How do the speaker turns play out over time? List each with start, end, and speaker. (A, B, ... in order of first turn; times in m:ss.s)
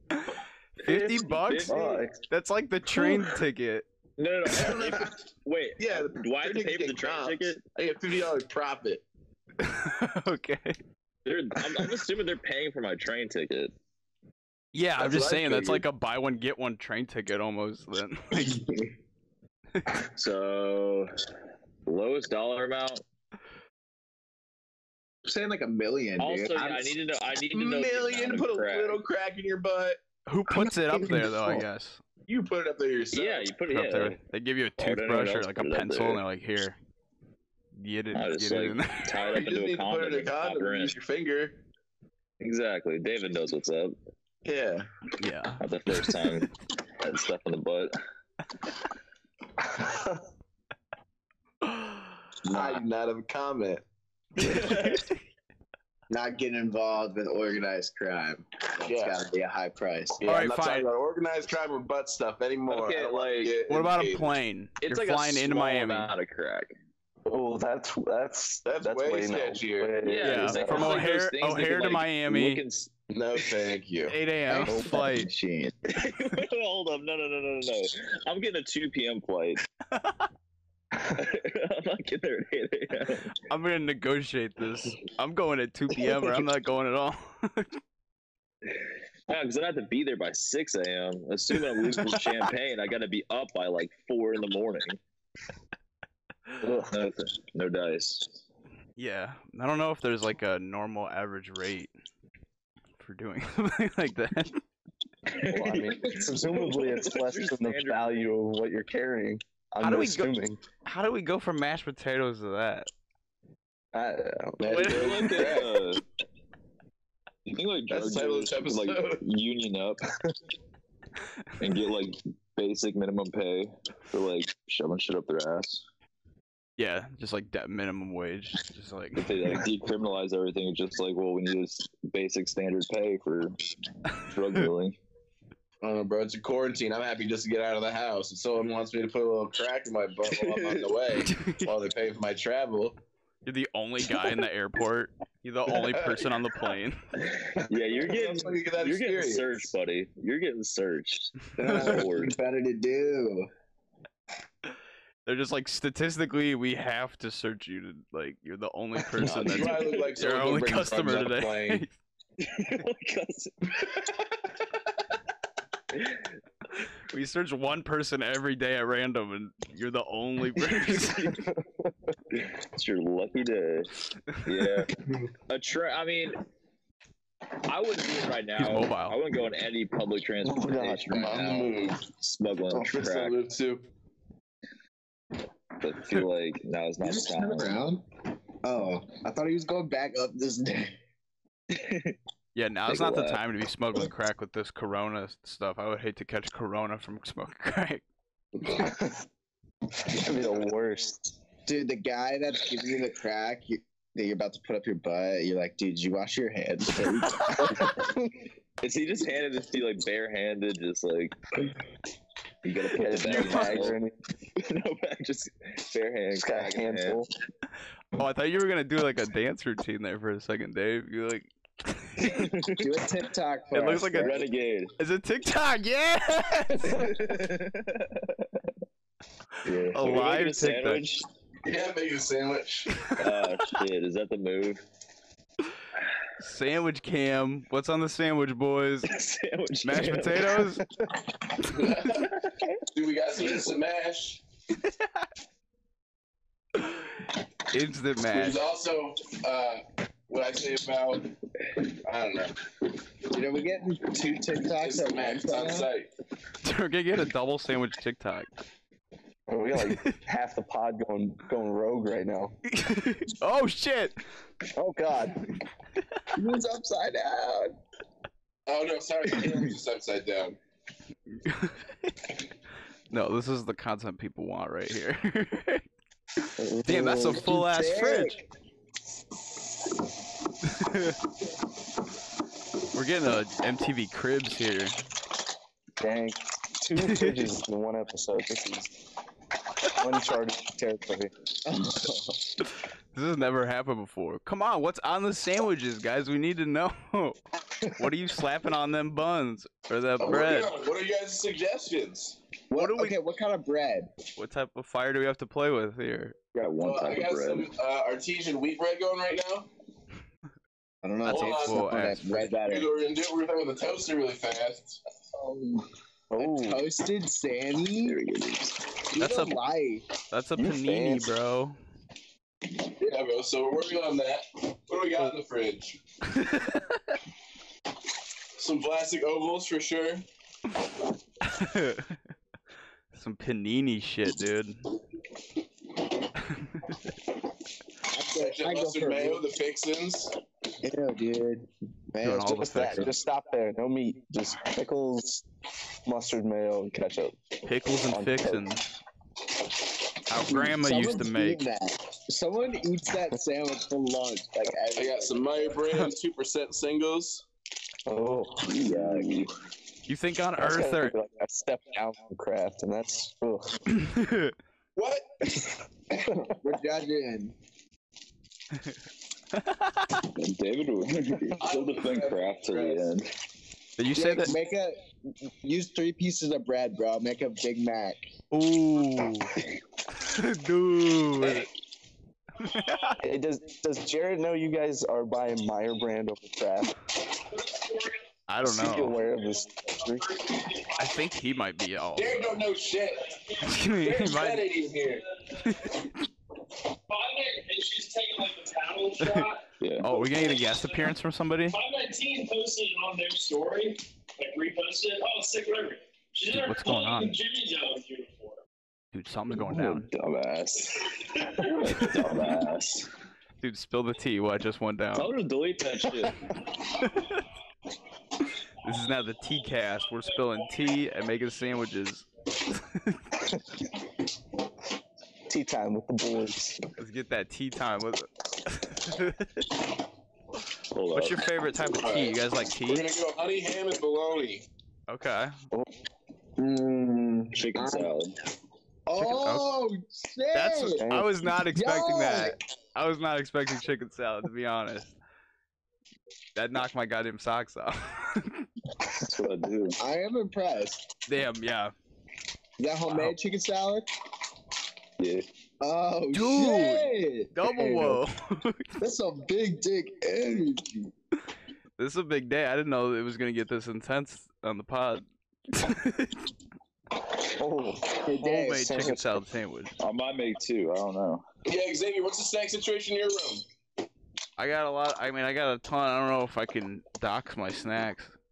0:00.1-0:03.8 A
0:00.8-0:02.2 B
0:01.3-0:02.0 C
0:04.2-0:07.6 C
0:04.5-0:05.2 D
0:05.8-0:09.0 D
0:09.6-0:10.8 A
0:11.2-0:13.7 C
0:14.7-0:18.6 A
0:15.0-0:15.8 D
0:18.4-0:18.9 E
0:19.9-0:21.1 C
0:21.8-0:23.0 C
0:25.2-0:26.9 E
0:26.2-0:29.0 C
0:27.5-0:30.0 D
0:30.2-0:32.0 A
0:30.5-0:31.6 E
0:32.2-0:33.5 D
0:33.1-0:34.2 C
0:33.6-0:36.8 A
0:34.8-0:36.2 C
0:37.8-0:39.1 A
0:38.1-0:41.0 C
0:39.1-0:41.6 D
0:42.4-0:44.0 C
0:44.4-0:44.9 D
0:45.2-0:46.2 A
0:45.6-0:47.9 C
0:51.6-0:52.1 A
0:52.4-0:52.8 E
0:52.5-0:53.8 D
0:54.4-0:55.0 C
0:54.4-0:55.1 A
0:56.1-1:00.2 E
0:58.8-0:59.2 D
1:00.2-1:04.3 D
1:00.2-1:00.9 A
1:02.7-1:03.5 C
1:03.7-1:06.1 A
1:04.8-1:06.7 C
1:07.2-1:11.0 B
1:08.6-1:10.0 D
1:10.0-1:12.9 C
1:10.2-1:12.6 A
1:13.1-1:14.2 D
1:14.1-1:15.3 A
1:14.5-1:15.8 E
1:14.7-1:15.0 B
1:15.9-1:19.6 C
1:21.1-1:23.3 C
1:23.4-1:27.8 A
1:29.3-1:35.0 C
1:31.9-1:32.2 A
1:36.6-1:37.0 B
1:36.9-1:38.3 C
1:39.0-1:41.9 A
1:43.0-1:44.6 A
1:45.3-1:48.2 C
1:45.5-1:50.6 B
1:49.8-1:52.9 A
1:53.9-1:55.0 B
1:54.6-1:55.8 D
1:54.7-1:55.5 A
1:54.7-1:56.0 C
1:57.4-2:00.0 C
1:57.9-1:59.2 D
2:01.6-2:05.8 C
2:06.8-2:09.3 A
2:09.2-2:15.0 C
2:15.8-2:23.0 D
2:20.3-2:20.9 C
2:21.2-2:21.7 A
2:23.4-2:27.0 A
2:25.8-2:26.2 D
2:27.2-2:32.4 C
2:27.6-2:29.7 D
2:31.6-2:33.5 E
2:35.2-2:41.9 A
2:39.2-2:41.8 D
2:42.4-2:44.0 C
2:45.9-2:46.3 C
2:47.1-2:51.4 A
2:50.7-2:51.4 C
2:51.4-2:52.1 B
2:52.3-2:54.9 C
2:55.5-2:56.4 C
2:57.6-3:03.4 C
2:58.6-2:59.2 A
3:00.4-3:01.5 B
3:01.2-3:02.1 D
3:02.7-3:03.9 D
3:05.8-3:07.8 C
3:07.0-3:08.0 E
3:08.6-3:11.0 E
3:11.7-3:12.1 C
3:12.5-3:18.0 A
3:12.9-3:13.4 C
3:18.6-3:19.2 B
3:20.1-3:21.3 B
3:21.7-3:28.0 E
3:27.8-3:28.2 B
3:28.8-3:31.7 C
3:32.6-3:34.0 C
3:32.9-3:34.1 B
3:33.2-3:33.9 A
3:34.6-3:37.2 C
3:36.3-3:37.3 B
3:38.1-3:42.5 A
3:42.2-3:43.0 C
3:42.8-3:44.5 E
3:43.7-3:44.4 A
3:44.2-3:44.9 C
3:45.0-3:47.1 A
3:46.8-3:48.7 C
3:49.6-3:51.2 C
3:49.9-3:51.1 A
3:51.6-3:53.1 D
3:53.0-3:53.4 A
3:53.1-3:54.8 C
3:56.4-3:59.1 A
3:59.1-4:00.6 C
3:59.8-4:00.8 A
4:01.6-4:02.4 D
4:02.1-4:02.6 C
4:02.9-4:04.4 D
4:07.7-4:08.6 A
4:08.3-4:12.6 D
4:13.3-4:15.9 E
4:14.8-4:16.1 D
4:16.6-4:18.5 A
4:19.5-4:22.5 B
4:19.8-4:20.2 A
4:22.7-4:24.1 A
4:24.8-4:25.5 B
4:26.3-4:27.8 E
4:28.7-4:30.6 D
4:31.4-4:32.1 A
4:33.1-4:35.8 A
4:36.4-4:38.4 A
4:36.6-4:37.5 B
4:37.3-4:38.4 E
4:40.6-4:41.2 A
4:42.9-4:45.0 A
4:46.0-4:48.9 B
4:47.0-4:47.5 A
4:49.9-4:51.3 B
4:51.6-4:52.4 E
4:53.1-4:57.4 A
4:58.0-5:00.7 A
5:00.2-5:02.4 D
5:02.7-5:04.1 E
5:02.8-5:03.2 A
5:04.4-5:06.4 A
5:06.5-5:07.7 C
5:06.8-5:09.7 D
5:11.0-5:12.9 E
5:11.2-5:12.5 A
5:11.3-5:11.9 D
5:12.6-5:15.0 D
5:16.3-5:16.8 B
5:16.4-5:18.2 E
5:18.0-5:18.8 C
5:19.1-5:20.1 E
5:19.2-5:19.6 A
5:20.3-5:21.8 A
5:20.6-5:21.3 B
5:23.0-5:26.0 D
5:26.3-5:27.0 A
5:28.6-5:30.2 D
5:31.4-5:32.2 A
5:33.1-5:34.8 A
5:36.4-5:37.0 A
5:38.1-5:39.4 E
5:38.4-5:40.4 D
5:40.8-5:43.1 E
5:42.2-5:43.1 A
5:42.5-5:45.4 B
5:46.0-5:47.4 B
5:47.6-5:48.8 A
5:48.1-5:48.6 B
5:50.3-5:51.6 A
5:50.4-5:55.8 E
5:54.9-5:57.4 D
5:58.1-5:58.9 B
5:58.7-5:59.3 E
5:58.7-5:59.5 C
6:00.1-6:01.2 A
6:00.6-6:03.8 B
6:03.9-6:04.5 A
6:05.0-6:05.2 D
6:06.1-6:07.5 E
6:09.5-6:10.2 A
6:10.2-6:13.3 C
6:11.6-6:13.1 D
6:14.0-6:14.5 A
6:14.1-6:18.2 E
6:18.5-6:19.5 A
6:20.1-6:21.7 A
6:22.6-6:23.2 A
6:23.2-6:27.0 B
6:28.5-6:29.2 A
6:28.6-6:30.5 B
6:30.9-6:32.7 A
6:32.2-6:35.2 D
6:33.6-6:34.7 A
6:35.5-6:36.2 A
6:37.1-6:39.1 F
6:39.2-6:41.8 A
6:39.8-6:40.1 C
6:41.8-6:48.2 F
6:46.5-6:47.4 A
6:49.1-6:50.1 A
6:49.6-6:53.1 C
6:53.6-6:55.3 A
6:55.1-6:56.5 C
6:56.9-6:57.4 A
6:58.8-7:03.4 A
7:05.5-7:06.8 B
7:07.0-7:09.7 A
7:10.9-7:11.4 C
7:11.1-7:13.1 A
7:12.0-7:14.6 D
7:15.1-7:15.5 A
7:16.6-7:18.1 E
7:17.5-7:18.3 C
7:19.1-7:21.1 E
7:19.2-7:19.7 A
7:20.5-7:25.1 A
7:21.0-7:21.3 B
7:21.8-7:22.6 E
7:26.5-7:28.7 A
7:29.2-7:30.0 C
7:30.0-7:31.0 E
7:31.3-7:31.9 A
7:32.8-7:34.1 E
7:33.1-7:33.3 A
7:35.2-7:35.4 C
7:35.8-7:38.2 E
7:36.3-7:38.9 A
7:39.0-7:41.1 E
7:42.0-7:46.5 A
7:47.6-7:48.2 B
7:48.2-7:49.2 E
7:48.3-7:49.9 A
7:48.8-7:49.2 B
7:50.0-7:51.4 C
7:51.6-7:53.6 D
7:54.6-7:58.4 A